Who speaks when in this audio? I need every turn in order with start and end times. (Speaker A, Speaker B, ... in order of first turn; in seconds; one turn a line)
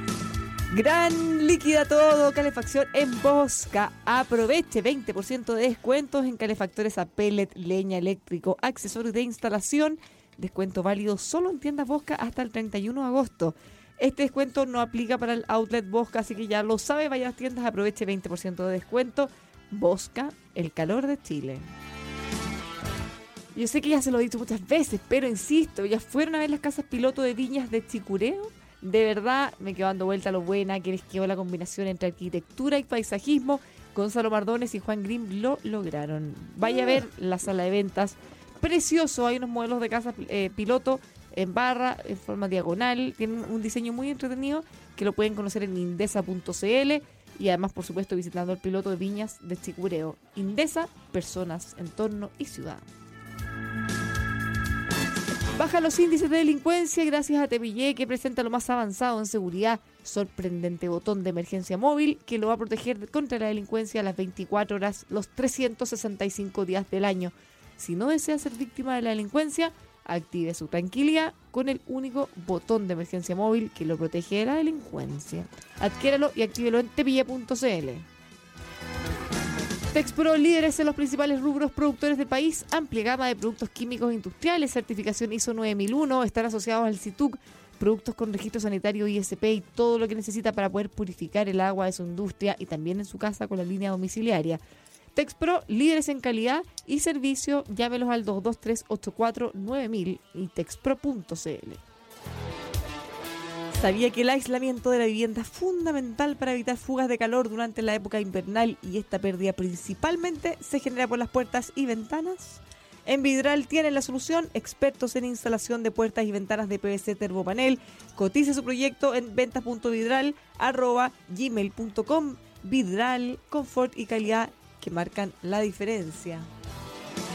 Speaker A: 0.7-21.7
Speaker A: 23.5-52.8
Speaker A: 55.5-78.1
Speaker A: 79.9-94.6
Speaker A: 95.1-101.8
Speaker A: 103.7-126.5